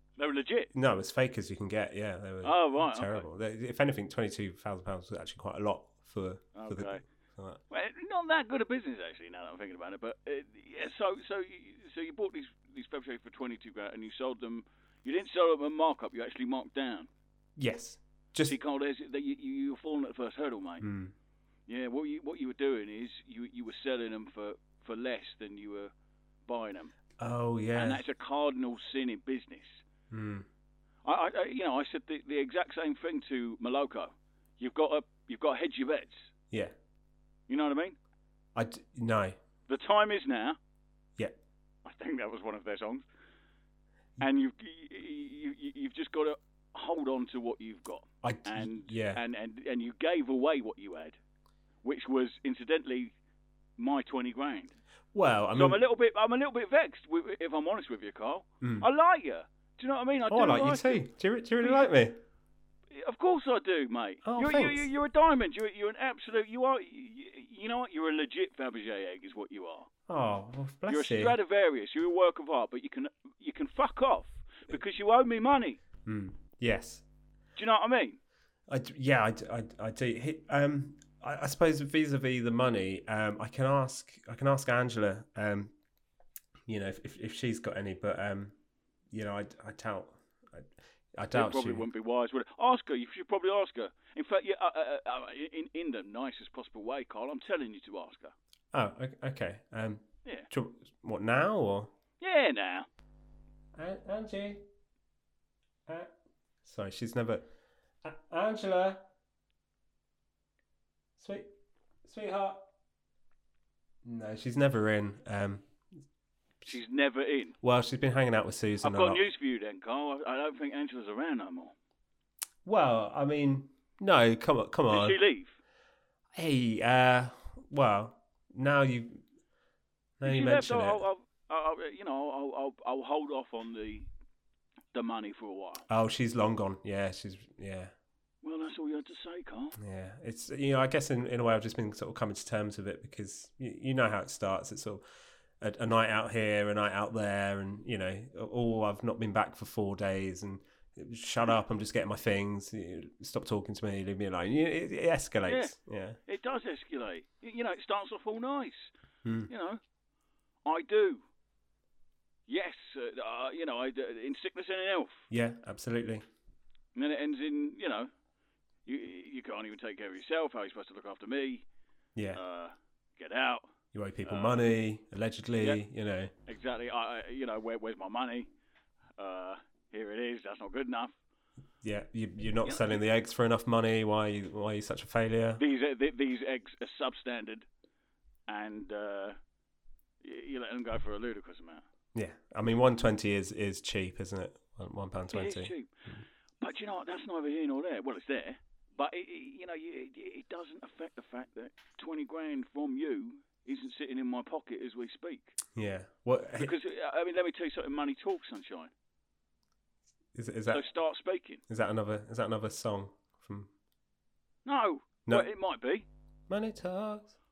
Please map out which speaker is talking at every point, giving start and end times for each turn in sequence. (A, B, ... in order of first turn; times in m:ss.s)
0:00.2-0:00.7 A
0:00.7-0:07.6 B
0:02.4-0:03.2 A
0:06.6-0:07.0 A
0:07.7-0:17.1 A
0:17.6-0:18.6 B
0:18.4-0:20.8 A
0:20.8-0:21.1 B
0:21.7-0:25.9 A
0:26.5-0:26.9 A
0:27.2-0:28.0 B
0:27.8-0:29.8 A
0:30.1-0:30.5 B
0:31.0-0:36.3 A
0:37.5-0:38.0 A
0:38.6-0:39.4 B
0:39.7-0:40.6 A
0:41.8-0:43.0 A
0:44.2-0:51.2 A
0:48.2-0:49.2 B
0:51.8-0:53.2 A
0:53.8-0:54.8 A
0:55.1-0:55.8 B
0:55.5-1:01.0 A
0:58.6-0:58.9 B
1:00.3-1:02.2 B
1:01.6-1:01.9 A
1:02.9-1:09.9 A
1:04.2-1:04.9 B
1:10.1-1:11.4 B
1:10.9-1:15.8 A
1:16.1-1:17.0 B
1:17.6-1:18.2 A
1:18.7-1:25.7 B
1:26.7-1:28.5 B
1:29.1-1:31.8 B
1:31.3-1:38.3 A
1:38.7-1:41.9 B
1:42.2-1:42.9 A
1:43.8-1:44.6 B
1:46.6-1:47.5 B
1:48.0-1:49.0 B
1:51.2-1:51.5 B
1:52.0-1:52.6 B
1:54.0-1:55.6 B
1:56.7-1:57.6 A
1:57.6-1:59.2 B
1:58.8-2:01.7 A
2:02.6-2:05.2 B
2:04.9-2:05.6 A
2:06.3-2:09.2 B
2:10.2-2:11.0 B
2:10.2-2:14.1 A
2:14.9-2:15.8 A
2:15.9-2:17.9 B
2:18.4-2:19.8 A
2:19.8-2:25.0 B
2:25.6-2:36.2 B
2:35.5-2:35.8 A
2:36.3-2:38.9 A
2:39.2-2:39.5 B
2:39.5-2:39.8 A
2:40.6-2:41.2 A
2:42.5-2:45.3 A
2:45.3-2:46.2 B
2:47.0-2:48.1 A
2:48.9-2:51.6 A
2:52.2-2:52.4 B
2:52.3-2:53.7 A
2:53.9-2:56.3 B
2:54.2-2:54.6 A
2:56.5-2:58.5 A
2:59.2-3:01.2 A
3:01.8-3:05.6 B
3:02.6-3:03.0 A
3:05.6-3:07.7 A
3:08.5-3:09.4 A
3:10.2-3:11.8 A
3:12.2-3:15.7 B
3:15.3-3:15.9 A
3:16.6-3:25.6 A
3:25.8-3:26.7 B
3:26.6-3:28.9 A
3:30.4-3:30.8 B
3:30.7-3:31.6 A
3:31.7-3:33.7 B
3:34.7-3:36.1 A
3:36.5-3:37.3 B